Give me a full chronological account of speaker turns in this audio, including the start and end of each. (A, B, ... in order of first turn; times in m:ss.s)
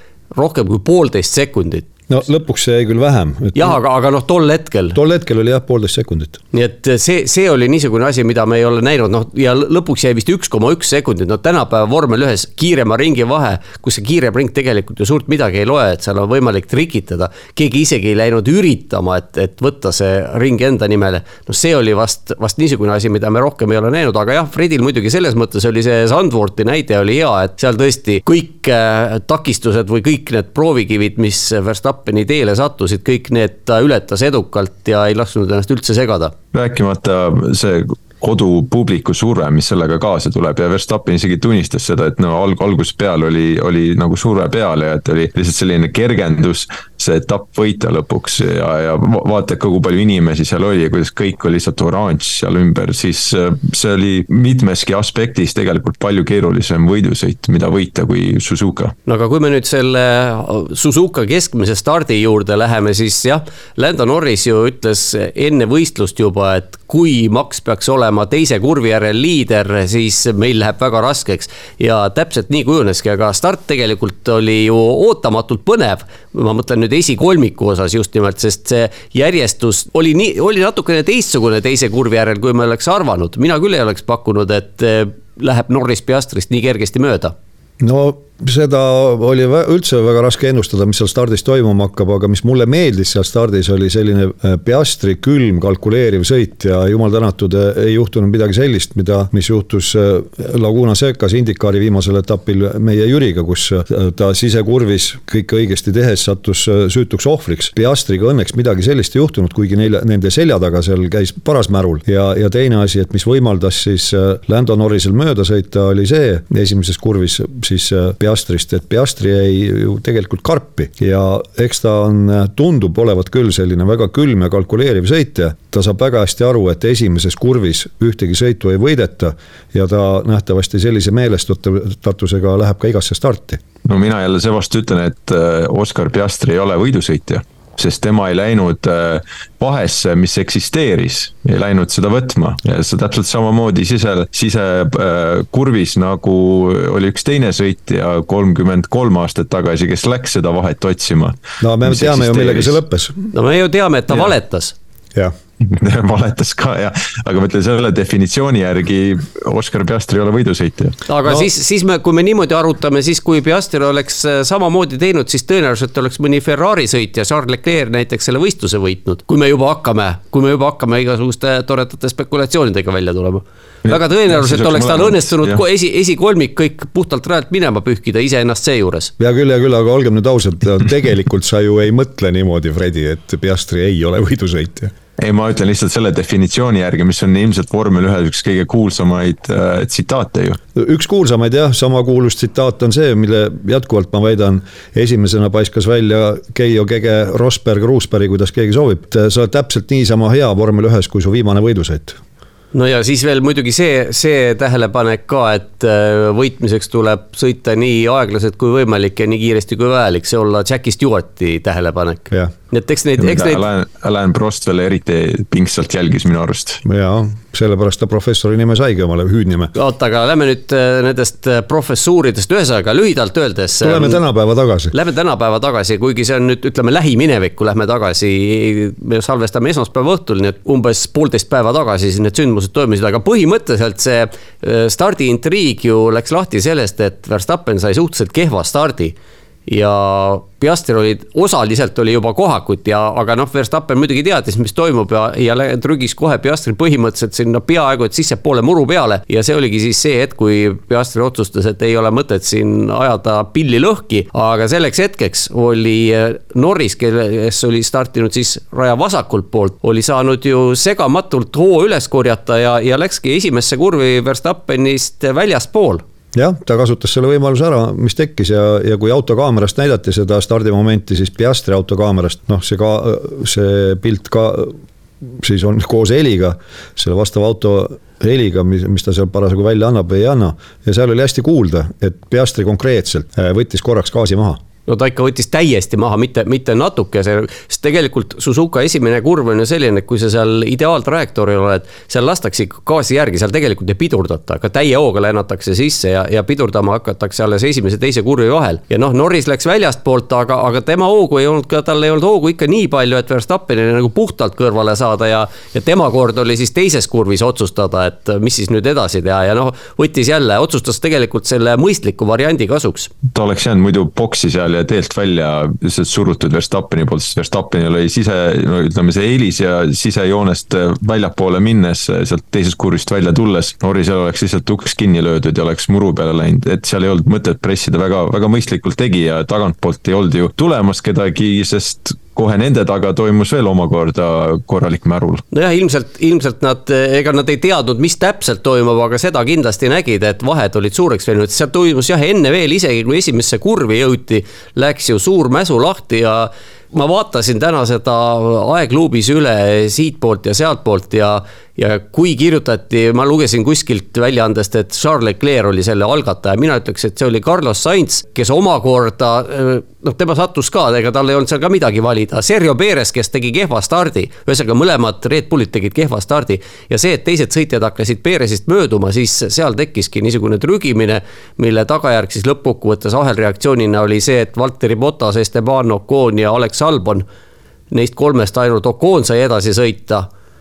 0:00.3-0:01.8 A
0:02.1-0:03.8 B
0:03.5-0:05.0 A
0:04.9-0:06.4 B
0:06.5-0:36.3 A
0:36.5-0:58.9 C
0:59.0-1:27.3 A
1:27.8-2:13.6 B
2:13.8-2:32.8 C
2:31.6-2:33.3 B
2:33.3-2:34.7 A
2:35.6-2:41.0 C
2:41.1-2:59.1 A
2:53.8-2:55.6 C
2:59.2-3:04.9 B
3:05.2-3:10.6 C
3:10.7-3:22.2 B
3:22.7-3:33.6 A
3:33.2-3:36.8 C
3:36.8-3:39.7 B
3:39.7-3:44.2 A
3:43.8-3:44.9 B
3:44.9-3:59.2 A
3:59.7-4:26.0 A
4:26.3-4:44.6 B
4:44.9-5:13.1 A
5:13.3-5:35.4 C
5:35.5-6:17.2 A
6:17.9-6:20.2 A